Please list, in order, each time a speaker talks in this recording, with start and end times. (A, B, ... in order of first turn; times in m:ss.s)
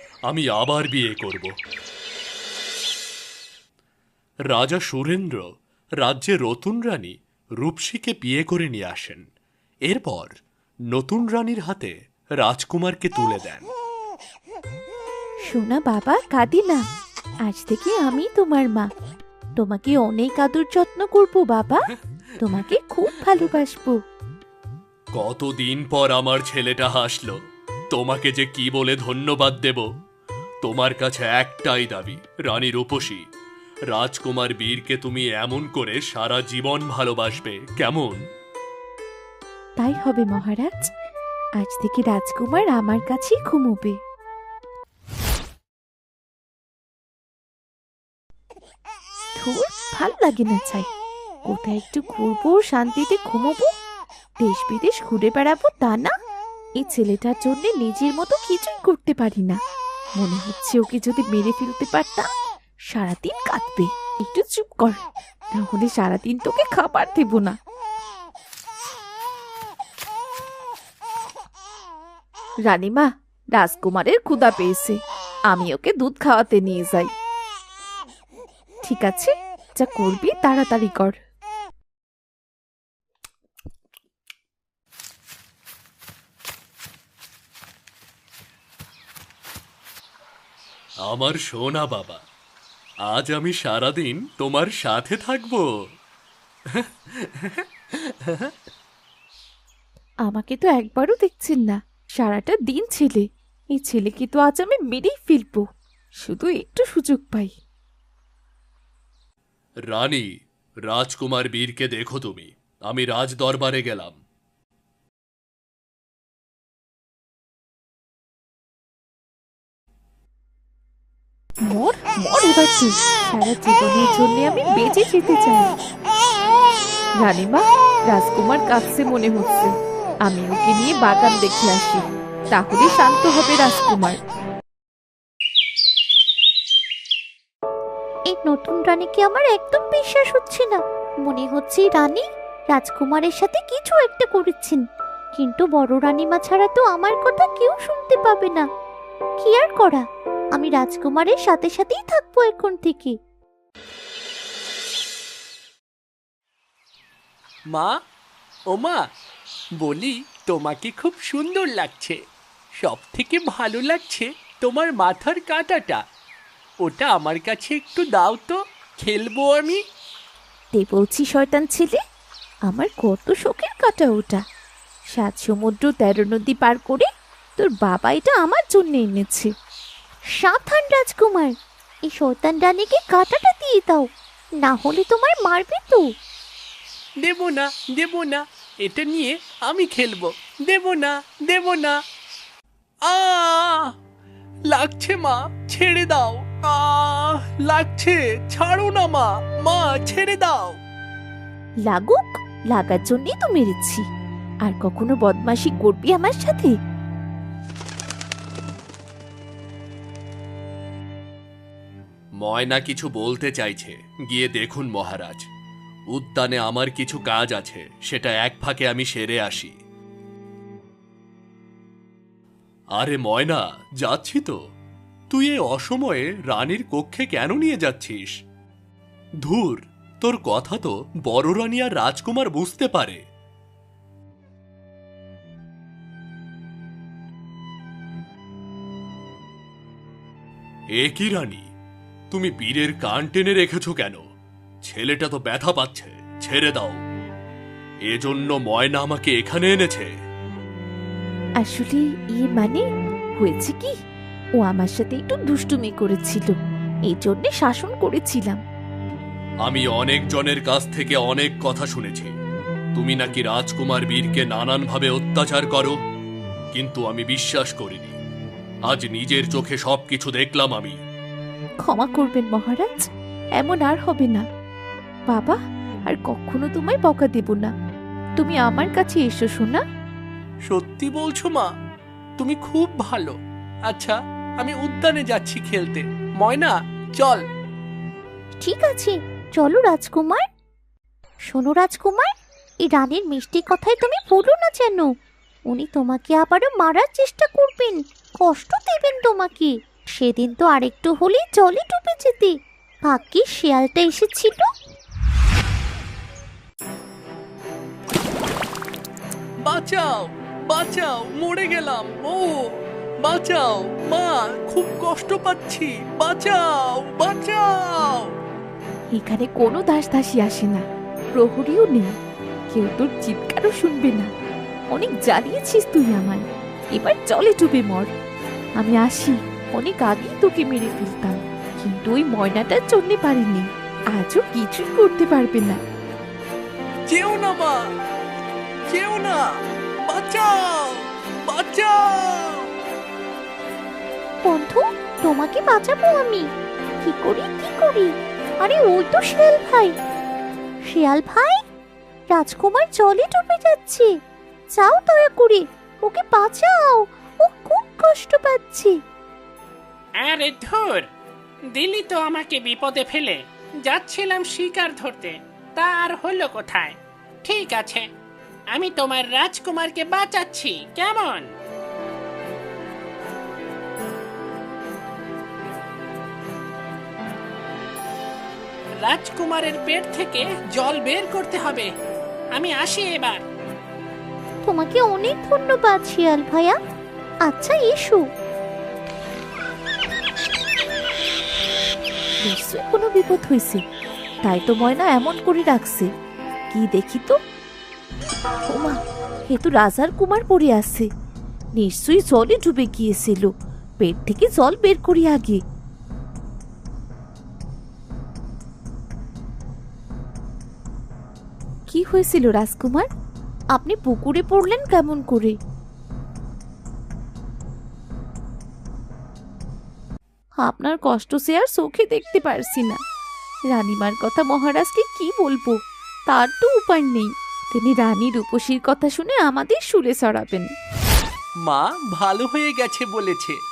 0:00.3-0:01.5 A
0:04.5-0:05.5 A
0:06.0-0:09.2 A
0:09.9-0:10.3 A
0:10.9-0:13.7 A
0:15.5-0:16.8 B
0:17.4-0:18.9 B
0:19.6-0:21.9 B
0:22.4-0:24.0 B
0:25.1-0:27.4 A
0:27.9-0:29.9 A
0:30.6-0:33.2 A
0:33.9-0:38.2 A
0:39.8-0:40.9 B
0:41.6-0:44.0 B
0:49.4-0:50.9 B
0:51.5-0:53.7 B
0:54.4-0:56.1 B
0:56.8-0:59.6 B
1:00.2-1:02.3 B
1:02.9-1:07.6 B
1:12.7-1:15.0 B
1:15.5-1:17.1 B
1:18.8-1:21.2 B
1:31.0-1:32.2 A
1:33.1-1:35.7 A
1:36.8-1:37.6 A
1:40.2-1:45.7 B
1:46.2-1:47.5 B
1:49.9-1:50.2 A
1:50.9-1:54.2 A
2:01.7-2:05.7 B
2:07.2-2:09.7 B
2:10.2-2:14.2 B
2:18.3-2:24.8 C
2:25.4-2:28.7 C
2:29.4-2:30.0 C
2:30.6-2:33.2 C
2:38.7-2:39.0 D
2:39.8-2:42.2 D
2:42.8-2:46.0 D
2:46.8-2:49.8 D
2:50.7-2:52.0 B
2:52.7-2:54.4 B
2:55.1-2:59.5 B
3:00.4-3:01.5 C
3:02.1-3:04.1 C
3:04.6-3:06.0 C
3:07.2-3:12.0 D
3:13.1-3:13.9 D
3:14.7-3:20.8 D
3:21.9-3:24.0 B
3:24.6-3:26.8 B
3:32.4-3:35.5 A
3:36.1-3:39.7 A
3:43.0-3:44.6 A
3:45.3-3:48.4 A
3:49.4-3:53.2 A
4:01.0-4:01.6 A
4:02.3-4:04.2 A
4:04.8-4:07.0 A
4:08.1-4:10.1 A
4:11.6-4:12.9 B
4:13.4-4:14.0 B
4:14.6-4:18.6 B
4:19.6-4:22.3 A
4:23.0-4:26.0 A
4:26.7-4:28.2 A
4:28.9-4:31.0 A
4:31.8-4:34.4 B
4:35.3-4:37.7 B
4:38.4-4:39.8 B
4:40.7-4:41.7 D
4:42.4-4:43.4 D
4:43.9-4:47.4 D
4:48.6-4:50.4 C
4:51.5-4:52.3 C
4:52.8-4:55.1 C
4:55.7-5:04.7 C
5:09.6-5:12.5 D
5:13.4-5:18.2 D
5:19.1-5:20.8 B
5:21.3-5:22.1 B
5:22.7-5:24.3 B
5:24.9-5:28.1 B
5:28.8-5:35.8 B
5:37.1-5:37.8 D
5:38.9-5:39.4 D
5:40.1-5:42.6 D
5:44.4-5:46.5 C
5:47.0-5:49.9 C
5:50.9-5:51.6 C
5:52.3-5:54.1 C
5:54.8-5:58.9 C
6:00.2-6:01.1 E
6:01.7-6:08.1 E
6:08.7-6:11.5 E
6:19.0-6:21.9 E
6:22.6-6:23.4 E
6:24.6-6:26.8 C
6:27.5-6:28.2 C
6:32.4-6:33.8 B
6:34.4-6:36.1 B
6:36.7-6:37.4 B
6:38.7-6:39.0 B
6:39.5-6:41.1 B
6:41.8-6:43.5 B
6:44.0-6:45.6 B
6:51.9-6:53.1 B
6:53.7-6:55.6 B
7:00.6-7:03.0 B
7:03.7-7:05.8 B
7:06.3-7:10.7 B
7:11.6-7:13.6 D